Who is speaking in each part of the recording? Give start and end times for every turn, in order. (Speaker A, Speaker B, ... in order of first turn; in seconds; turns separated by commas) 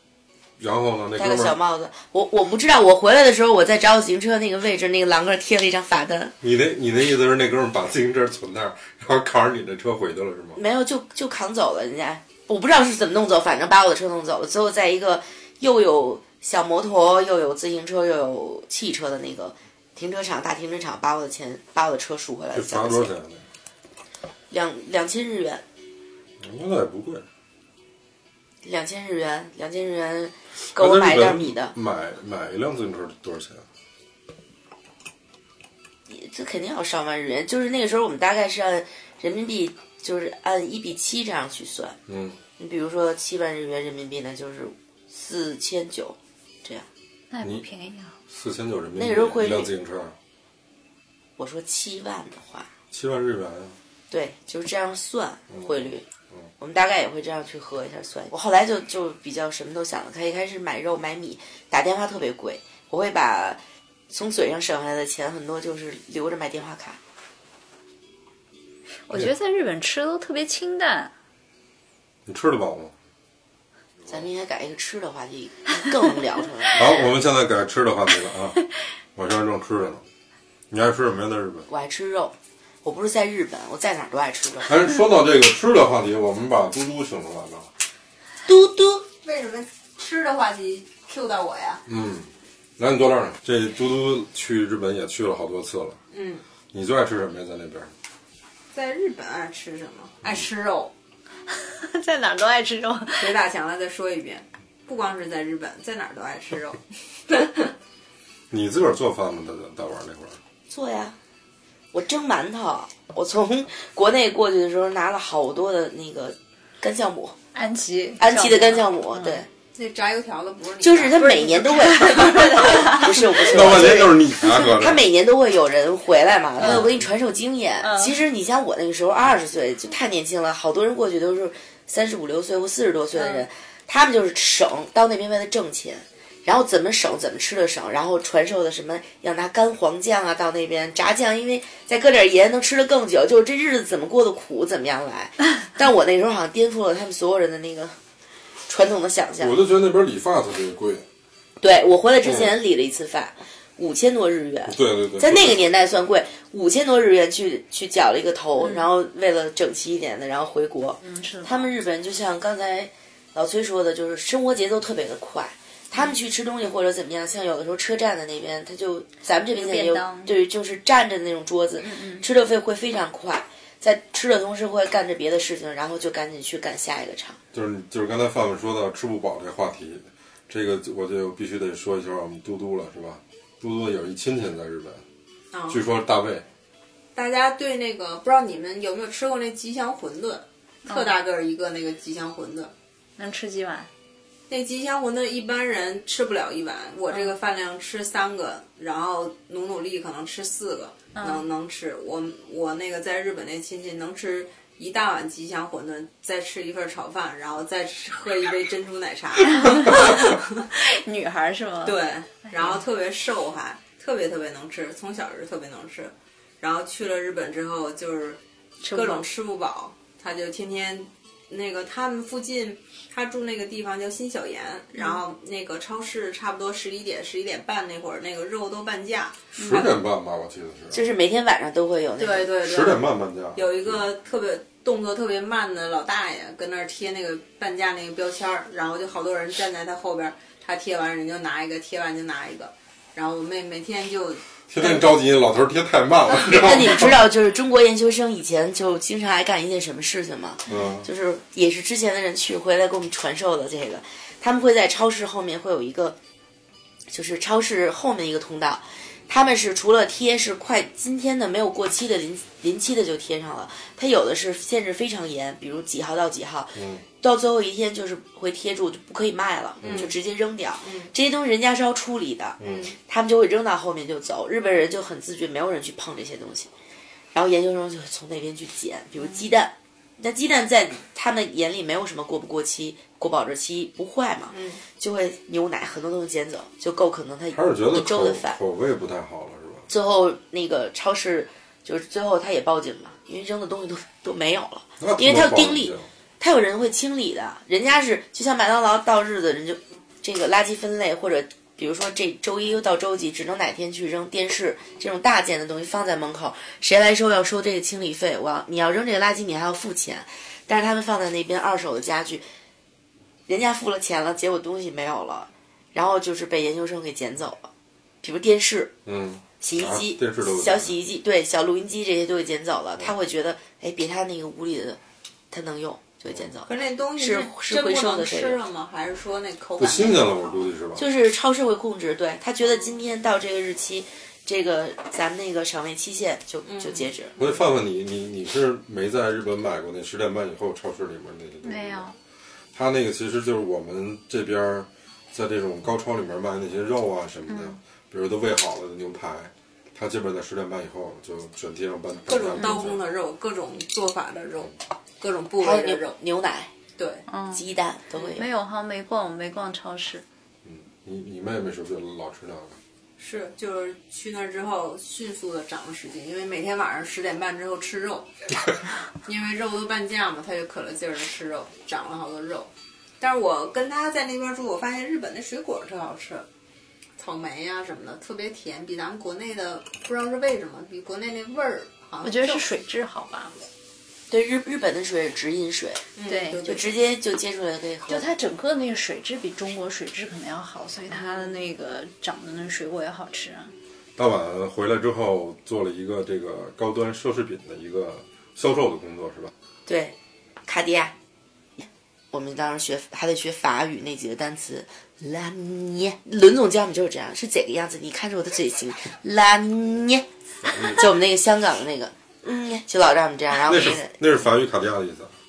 Speaker A: 0.6-1.6, Speaker B: 1.2-6.3, Speaker A: 6.4-10.6, Speaker B: 10.6-23.1, Speaker A: 22.5-23.4, Speaker B: 24.5-25.6, Speaker A: 26.4-27.2, Speaker B: 28.6-31.7, Speaker A: 30.6-33.6, Speaker B: 36.1-42.0, Speaker A: 42.1-42.4, Speaker B: 42.6-46.9, Speaker C: 47.3-48.1, Speaker A: 48.3-50.1, Speaker B: 49.0-49.7, Speaker B: 51.4-52.7, Speaker A: 52.9-53.8, Speaker B: 54.1-56.0, Speaker A: 55.5-56.5, Speaker B: 56.6-67.0, Speaker C: 69.1-71.1, Speaker A: 72.2-72.9, Speaker B: 74.0-76.9, Speaker A: 76.7-78.6, Speaker A: 79.2-80.0, Speaker A: 80.7-81.7, Speaker B: 81.7-84.7, Speaker A: 84.6-87.7, Speaker B: 88.4-89.0, Speaker D: 89.2-91.8, Speaker A: 91.8-96.0, Speaker D: 96.1-96.4, Speaker A: 96.7-97.9, Speaker D: 98.7-100.9, Speaker C: 101.5-103.3, Speaker D: 103.2-107.7, Speaker A: 108.5-110.4, Speaker B: 110.7-111.2, Speaker B: 111.9-117.3, Speaker C: 117.5-119.4, Speaker B: 118.2-119.5, Speaker D: 119.7-123.4, Speaker B: 120.8-148.0, Speaker C: 121.9-123.0, Speaker A: 123.4-125.0, Speaker A: 126.6-127.1, Speaker C: 127.8-128.1, Speaker B: 148.7-149.5, Speaker A: 149.4-151.1, Speaker B: 151.6-177.4, Speaker A: 152.2-152.5, Speaker A: 154.7-155.6, Speaker C: 158.6-158.9, Speaker C: 161.0-161.7, Speaker C: 169.5-170.3, Speaker C: 171.8-172.2, Speaker A: 177.5-185.0, Speaker D: 185.5-185.8, Speaker A: 185.7-186.4, Speaker D: 187.1-192.7, Speaker C: 190.8-191.1, Speaker C: 193.2-193.9, Speaker D: 194.5-210.6, Speaker C: 201.1-201.4, Speaker C: 209.5-211.9, Speaker D: 211.8-230.0, Speaker C: 212.5-212.8, Speaker C: 218.8-219.2, Speaker C: 224.9-225.2, Speaker A: 229.6-231.0, Speaker B: 230.9-232.5, Speaker D: 232.2-245.1, Speaker A: 232.6-234.1, Speaker A: 244.7-247.2, Speaker B: 246.5-256.2, Speaker A: 250.7-251.1, Speaker B: 257.1-276.7, Speaker A: 266.7-267.0, Speaker A: 269.8-270.1, Speaker D: 269.8-270.1, Speaker D: 270.8-271.1, Speaker A: 272.6-272.9, Speaker D: 272.6-272.9, Speaker B: 277.3-288.6, Speaker D: 284.5-284.8, Speaker A: 287.5-289.9, Speaker B: 289.9-312.4, Speaker A: 295.0-296.1, Speaker B: 313.5-317.7, Speaker B: 318.2-318.9, Speaker A: 319.1-320.9, Speaker B: 319.6-325.0, Speaker B: 325.5-328.6, Speaker D: 326.6-330.6, Speaker A: 329.8-331.0, Speaker B: 330.9-337.3, Speaker D: 336.6-337.5, Speaker A: 337.4-342.1, Speaker C: 341.6-342.1, Speaker A: 342.7-353.0, Speaker C: 347.5-347.8, Speaker D: 352.3-356.2, Speaker B: 355.6-356.7, Speaker D: 356.9-357.3, Speaker C: 357.3-357.6, Speaker B: 357.5-358.4, Speaker C: 358.3-360.2, Speaker A: 360.6-362.8, Speaker D: 363.2-368.3, Speaker D: 369.2-376.5, Speaker D: 377.2-382.7, Speaker C: 382.2-383.5, Speaker B: 384.3-386.0, Speaker D: 386.1-386.9, Speaker C: 386.3-386.6, Speaker B: 386.6-388.3, Speaker C: 388.1-393.7, Speaker A: 394.2-399.5, Speaker B: 399.9-401.1, Speaker B: 401.8-410.2, Speaker A: 410.6-411.0, Speaker B: 410.9-414.1, Speaker A: 413.5-415.3